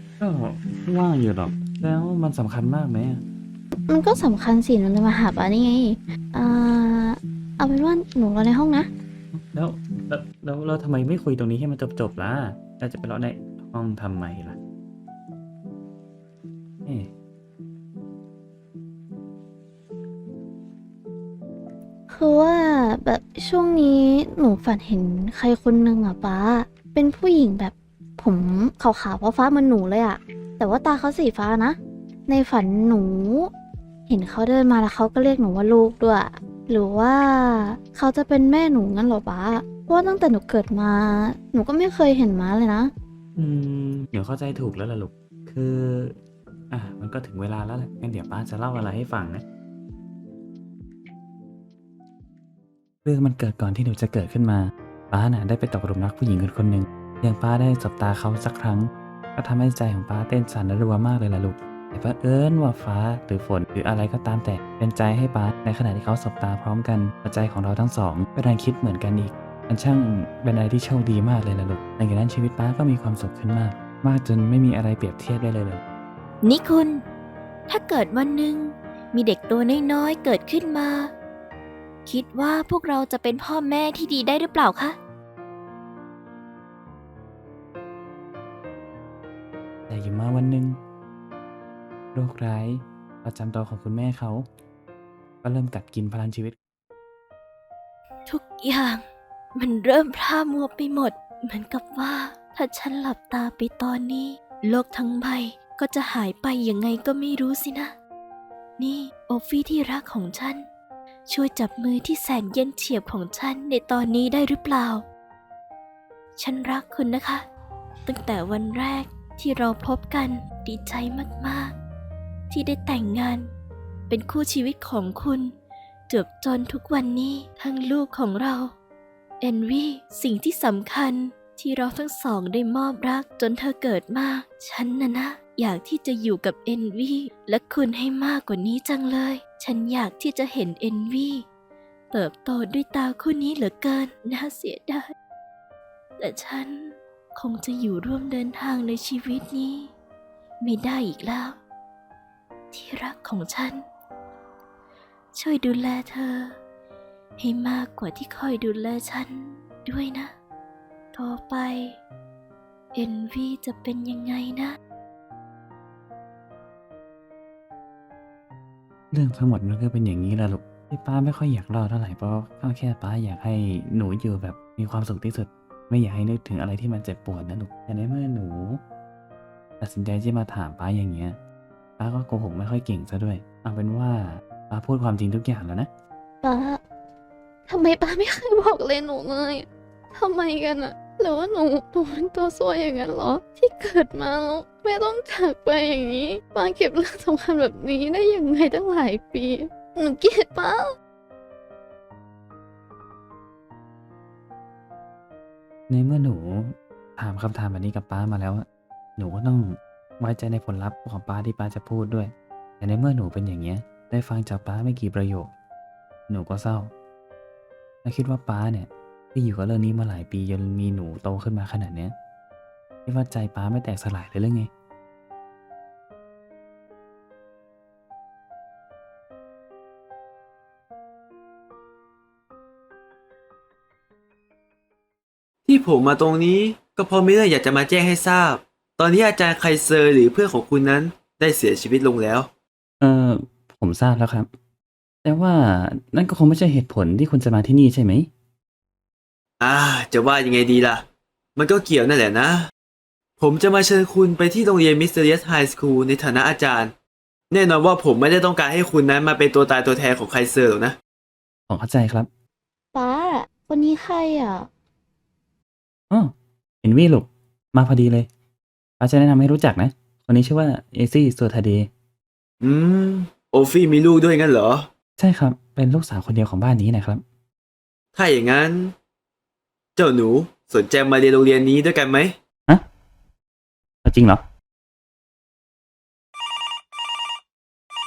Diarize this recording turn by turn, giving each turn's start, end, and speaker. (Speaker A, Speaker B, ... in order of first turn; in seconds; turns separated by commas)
Speaker A: 0.2-3.2, Speaker B: 3.9-8.9, Speaker A: 9.3-14.6, Speaker A: 16.8-17.1, Speaker B: 22.1-31.8, Speaker B: 32.3-33.5, Speaker B: 34.1-42.9, Speaker A: 43.4-46.2, Speaker A: 46.7-49.4, Speaker A: 53.0-75.8, Speaker C: 76.4-77.0, Speaker C: 77.7-81.1, Speaker C: 82.0-85.0, Speaker A: 89.9-90.8, Speaker A: 92.1-94.5, Speaker A: 95.4-96.6, Speaker C: 98.2-99.0, Speaker C: 99.5-107.9, Speaker C: 108.8-110.7, Speaker C: 111.3-115.0, Speaker C: 116.4-117.4, Speaker C: 118.0-121.8, Speaker C: 122.5-123.5, Speaker C: 124.1-125.5, Speaker C: 126.1-128.7, Speaker C: 129.4-141.4, Speaker C: 142.1-145.1, Speaker C: 146.2-149.9, Speaker C: 150.6-151.6, Speaker C: 152.7-153.8, Speaker C: 155.3-156.6, Speaker C: 157.4-160.3, Speaker C: 161.1-162.0, Speaker C: 162.9-164.8, Speaker A: 169.1-178.8, Speaker A: 179.8-181.4, Speaker A: 182.0-185.9, Speaker B: 186.4-186.8, Speaker B: 187.7-200.8, Speaker A: 205.9-208.7, Speaker A: 209.2-215.5, Speaker A: 216.3-216.9, Speaker A: 218.0-222.1, Speaker A: 223.1-224.7, Speaker D: 235.7-242.5, Speaker A: 243.0-244.5, Speaker A: 245.2-248.3, Speaker D: 249.6-251.0, Speaker D: 251.6-252.7, Speaker D: 253.4-256.9, Speaker D: 257.5-260.9, Speaker A: 261.7-262.3, Speaker B: 262.9-264.7, Speaker A: 266.1-268.3, Speaker A: 269.0-271.9, Speaker D: 272.6-274.9, Speaker A: 275.2-277.2, Speaker D: 278.1-278.9, Speaker D: 279.9-282.3, Speaker A: 284.0-284.4